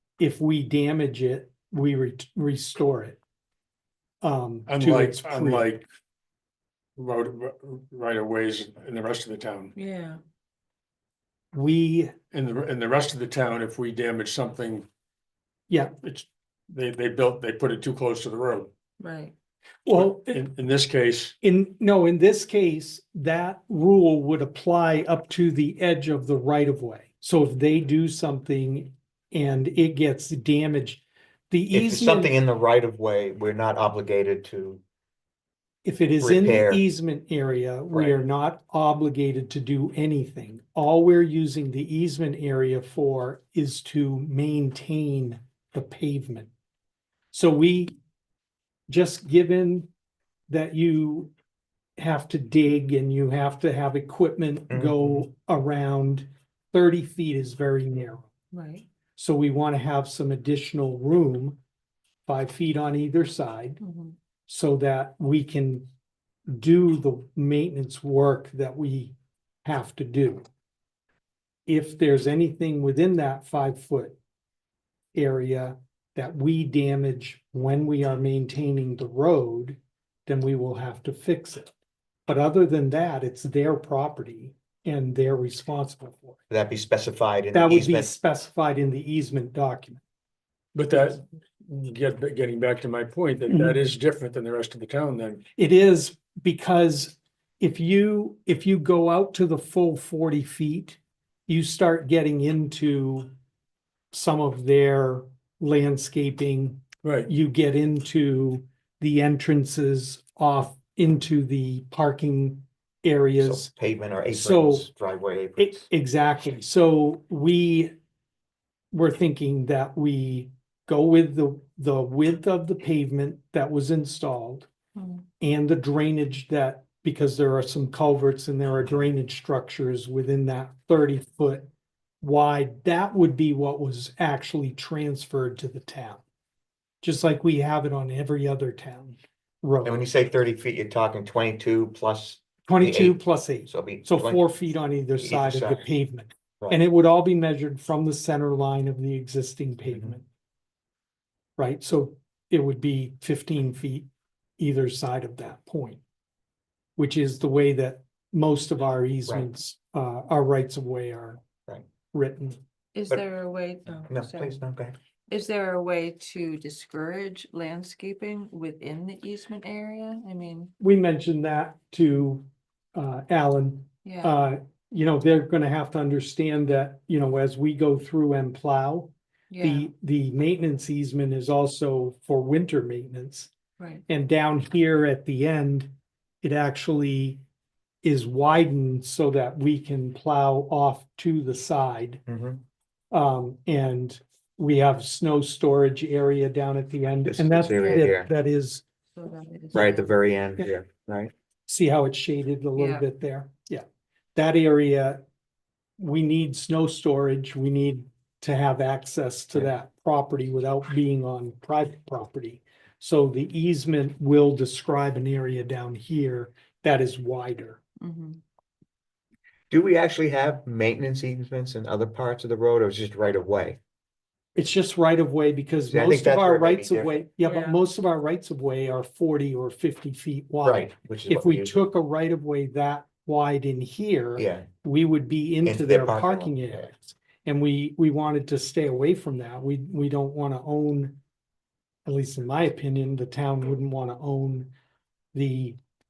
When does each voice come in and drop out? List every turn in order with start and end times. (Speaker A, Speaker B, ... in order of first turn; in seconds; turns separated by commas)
Speaker A: 0.2-3.2, Speaker A: 4.2-5.7, Speaker B: 4.7-5.9, Speaker B: 7.0-9.7, Speaker C: 9.8-10.2, Speaker A: 11.5-12.2, Speaker B: 12.3-14.9, Speaker B: 16.0-18.7, Speaker C: 19.0-19.3, Speaker A: 19.9-20.4, Speaker B: 19.9-21.3, Speaker A: 21.4-32.4, Speaker D: 31.7-34.8, Speaker A: 35.9-46.5, Speaker D: 36.2-36.8, Speaker A: 47.3-48.0, Speaker A: 48.9-49.9, Speaker A: 50.5-51.3, Speaker A: 52.0-58.3, Speaker D: 54.7-55.2, Speaker C: 58.5-58.9, Speaker A: 59.2-61.6, Speaker A: 62.3-63.8, Speaker C: 63.8-64.2, Speaker A: 64.5-65.9, Speaker A: 66.5-70.5, Speaker A: 71.7-74.2, Speaker A: 75.2-81.7, Speaker A: 82.3-86.4, Speaker D: 86.5-88.1, Speaker A: 87.5-90.0, Speaker B: 90.8-95.4, Speaker A: 90.9-91.2, Speaker A: 93.5-93.8, Speaker A: 95.6-103.3, Speaker A: 104.1-113.7, Speaker B: 107.0-107.3, Speaker D: 113.4-115.9, Speaker A: 114.3-114.9, Speaker A: 115.6-117.9, Speaker A: 118.9-124.7, Speaker C: 125.0-125.2, Speaker A: 125.4-131.7, Speaker A: 132.2-136.2, Speaker A: 137.0-140.0, Speaker D: 139.8-144.4, Speaker A: 142.7-150.3, Speaker D: 145.2-145.9, Speaker D: 149.9-150.2, Speaker A: 151.6-156.0, Speaker A: 157.0-161.4, Speaker A: 162.1-162.6, Speaker C: 162.9-164.6, Speaker D: 164.1-165.0, Speaker C: 165.3-170.7, Speaker A: 170.8-183.5, Speaker C: 174.1-174.3, Speaker C: 179.5-179.9, Speaker C: 183.8-184.0, Speaker A: 184.1-187.4, Speaker A: 188.0-192.2, Speaker D: 192.3-192.6, Speaker A: 193.1-198.8, Speaker D: 197.3-198.3, Speaker C: 199.1-200.1, Speaker D: 199.7-201.3, Speaker A: 201.7-203.8, Speaker C: 202.8-203.0, Speaker A: 204.3-205.2, Speaker A: 206.0-217.8, Speaker C: 218.0-218.4, Speaker D: 219.7-223.8, Speaker A: 224.6-241.2, Speaker D: 225.9-227.1, Speaker C: 227.4-227.8, Speaker D: 230.6-231.8, Speaker D: 234.4-234.7, Speaker D: 235.6-236.9, Speaker A: 242.1-244.7, Speaker A: 245.3-245.8